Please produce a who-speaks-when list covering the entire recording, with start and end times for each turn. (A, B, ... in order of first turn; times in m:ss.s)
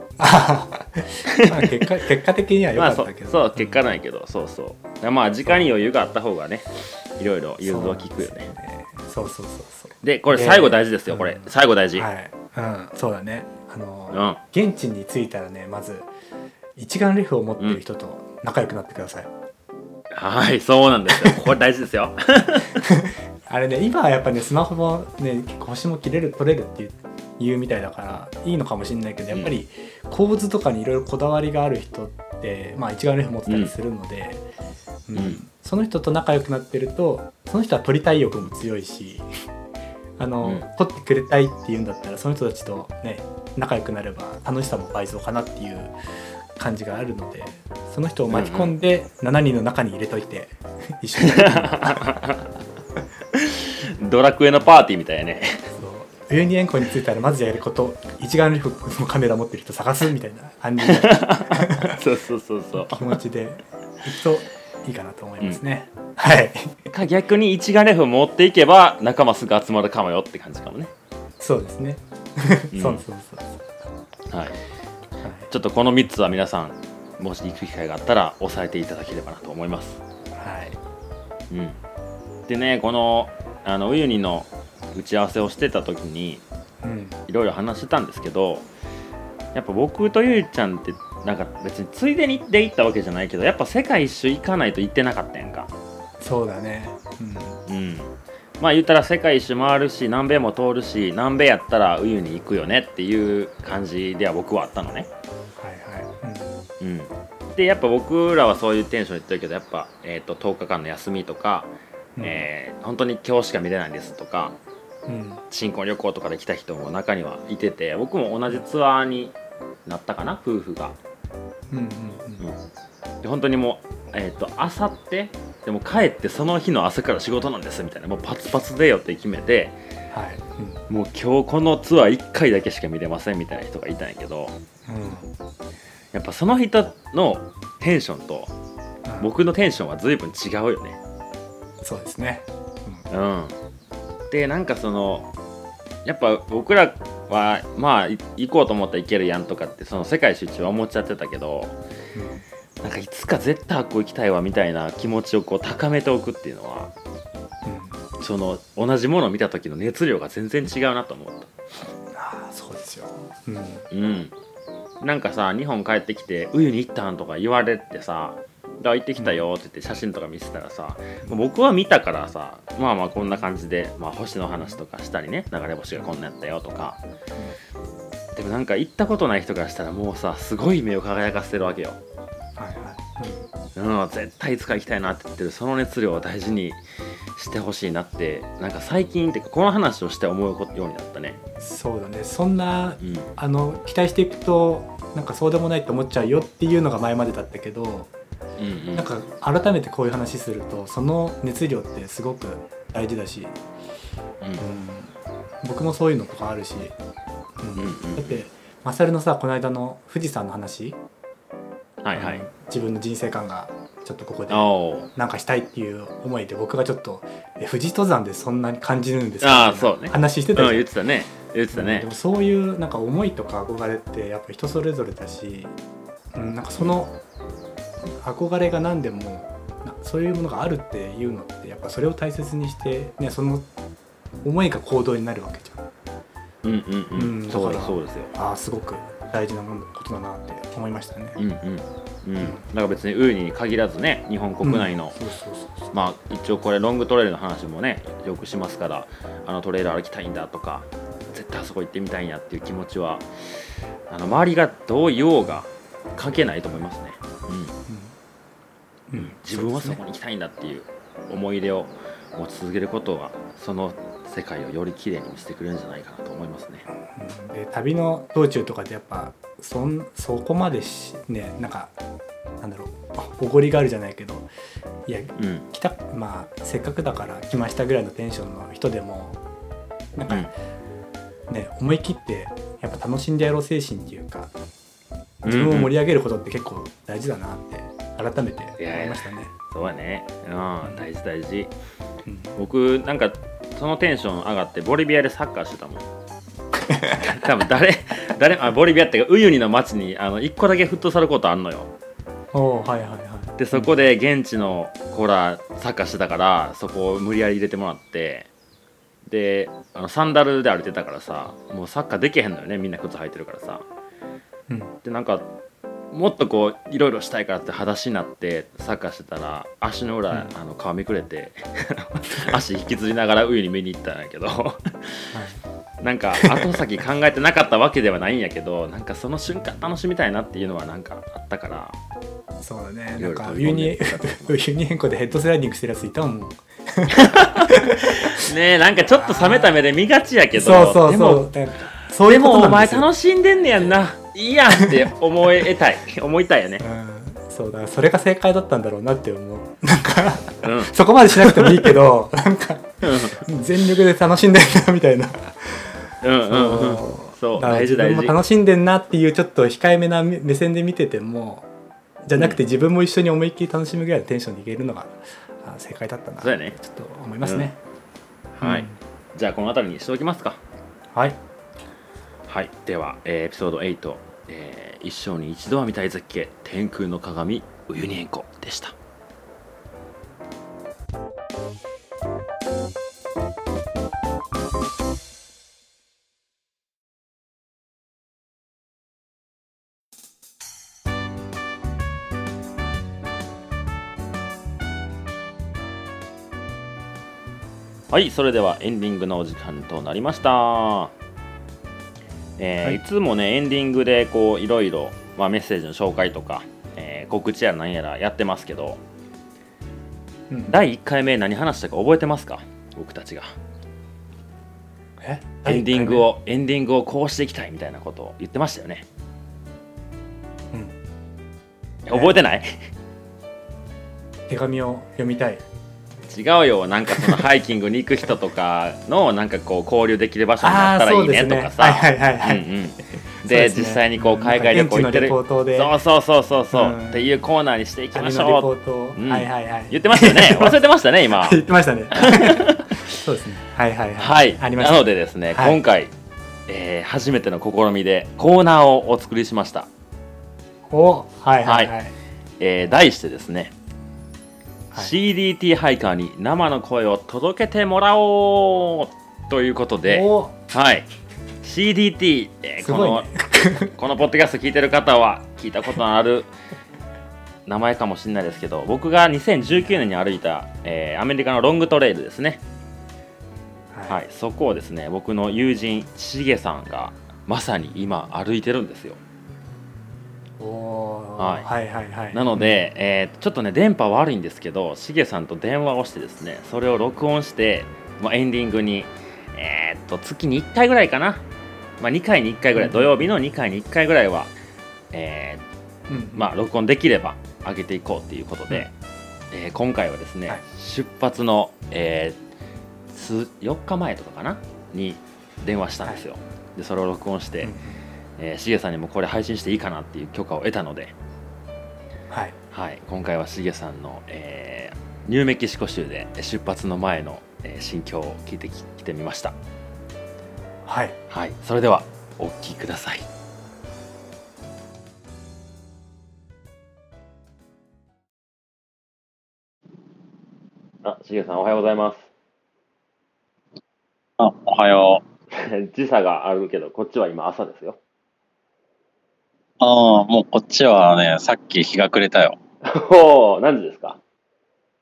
0:00.2-0:03.8 A
0:01.3-0:01.7 B
0:02.8-0:08.5 B
0:05.4-0:05.8 A
0:07.6-0:16.1 A
0:10.0-0:12.1 B
0:14.1-0:14.4 B
0:16.8-0:19.3 A
0:20.1-0:22.8 B
0:22.8-0:34.4 A
0:33.5-0:33.7 B
0:35.1-0:39.3 A
0:35.1-0:35.4 B
0:40.2-0:46.0 A
0:46.5-0:52.1 A
0:48.3-0:48.7 B
0:51.2-0:52.4 B
0:53.4-0:55.6 B
0:55.7-1:01.9 A
1:00.8-1:03.1 B
1:02.8-1:06.8 A
1:06.9-1:10.9 B
1:11.4-1:13.7 A
1:12.7-1:13.0 B
1:14.3-1:14.6 B
1:15.2-1:15.5 A
1:15.5-1:20.0 B
1:20.4-1:20.8 A
1:21.5-1:21.8 B
1:22.5-1:26.4 B
1:26.8-1:27.2 A
1:27.3-1:28.6 B
1:29.5-1:35.7 B
1:36.2-1:37.6 A
1:37.7-1:45.1 B
1:45.6-1:46.6 A
1:46.8-1:54.6 B
1:52.2-1:52.5 A
1:55.1-1:55.4 A
1:55.5-2:01.0 B
2:01.7-2:02.4 A
2:03.2-2:09.8 B
2:10.1-2:10.8 A
2:10.9-2:14.5 B
2:14.9-2:15.3 A
2:16.1-2:18.5 B
2:19.2-2:21.0 B
2:21.8-2:23.0 A
2:23.1-2:23.6 B
2:24.3-2:25.3 B
2:26.0-2:31.7 B
2:32.1-2:32.4 A
2:32.8-2:36.9 B
2:37.6-2:38.0 A
2:38.2-2:41.5 B
2:42.1-2:43.8 A
2:43.9-2:44.3 B
2:45.0-2:57.0 B
2:49.2-2:49.4 A
2:53.2-2:53.4 A
2:58.3-3:02.0 B
3:02.6-3:03.5 A
3:03.7-3:06.8 B
3:07.4-3:11.4 B
3:11.6-3:18.1 A
3:13.0-3:13.3 B
3:18.6-3:19.1 B
3:18.9-3:23.6 A
3:24.6-3:27.0 A
3:27.6-3:31.0 A
3:27.8-3:28.4 B
3:32.0-3:32.4 B
3:32.1-3:40.9 A
3:34.5-3:35.1 B
3:39.4-3:42.1 B
3:41.7-3:45.7 A
3:46.3-3:47.2 A
3:48.2-3:53.7 A
3:54.4-3:55.9 A
3:56.6-3:58.3 B
3:57.2-4:01.4 A
4:01.4-4:05.2 B
4:04.6-4:05.9 A
4:05.9-4:13.3 B
4:14.1-4:17.8 B
4:17.9-4:18.1 A
4:19.1-4:20.0 A
4:19.1-4:26.8 B
4:27.0-4:31.9 A
4:32.6-4:34.5 A
4:35.0-4:39.4 A
4:35.4-4:35.6 B
4:40.1-4:40.5 A
4:41.5-4:44.5 A
4:45.4-4:49.5 A
4:45.4-4:45.9 B
4:48.8-4:51.7 B
4:52.2-4:52.5 A
4:52.6-4:56.0 B
4:56.9-4:57.3 A
4:57.2-5:01.9 B
5:02.5-5:03.9 A
5:03.6-5:08.5 B
5:09.3-5:13.8 B
5:14.7-5:14.9 A
5:15.0-5:15.5 B
5:16.1-5:25.3 B
5:22.3-5:22.6 A
5:25.3-5:25.6 A
5:26.0-5:32.0 B
5:26.4-5:26.7 A
5:32.6-5:38.4 A
5:33.2-5:34.5 B
5:37.1-5:41.5 B
5:39.1-5:39.7 A
5:40.5-5:43.1 A
5:42.2-5:46.8 B
5:44.8-5:45.6 A
5:46.8-6:01.7 A
5:50.6-5:51.8 B
5:53.0-5:53.4 B
5:56.2-5:58.4 B
6:02.2-6:07.8 A
6:06.4-6:06.8 B
6:07.4-6:07.7 B
6:08.5-6:10.6 B
6:08.6-6:09.0 A
6:11.1-6:11.4 A
6:12.5-6:18.9 B
6:38.1-6:41.1 B
6:42.6-6:49.0 B
6:50.5-6:50.7 A
6:50.7-6:53.5 B
6:55.2-6:56.2 A
6:55.6-6:59.0 B
7:02.0-7:02.7 B
7:04.5-7:05.6 A
7:06.3-7:21.6 B
7:07.1-7:07.4 A
7:10.6-7:12.6 A
7:13.4-7:15.9 A
7:16.7-7:17.3 A
7:18.1-7:20.8 A
7:21.3-7:25.8 A
7:22.1-7:23.0 B
7:24.2-7:26.1 B
7:26.7-7:29.9 B
7:30.9-7:32.1 A
7:31.6-7:31.9 B
7:32.6-7:33.7 B
7:34.9-7:41.1 B
7:40.1-7:40.6 A
7:41.6-7:43.3 B
7:42.8-7:43.9 A
7:43.9-7:46.5 B
7:47.7-7:52.6 B
7:53.9-7:54.2 A
7:54.1-7:59.2 B
8:00.6-8:02.8 A
8:01.4-8:01.7 B
8:02.3-8:11.4 B
8:12.0-8:14.5 B
8:12.8-8:13.1 A
8:15.1-8:15.6 B
8:16.1-8:16.5 A
8:16.3-8:18.9 B
8:19.5-8:22.4 B
8:23.1-8:27.7 B
8:27.6-8:28.0 A
8:28.4-8:31.1 B
8:32.3-8:32.6 A
8:32.7-8:39.6 B
8:40.8-8:41.2 A
8:41.3-8:43.3 B
8:51.0-8:52.3 B
8:54.4-8:55.2 C
8:55.5-8:58.0 B
8:59.8-9:02.6 C
9:02.8-9:04.2 B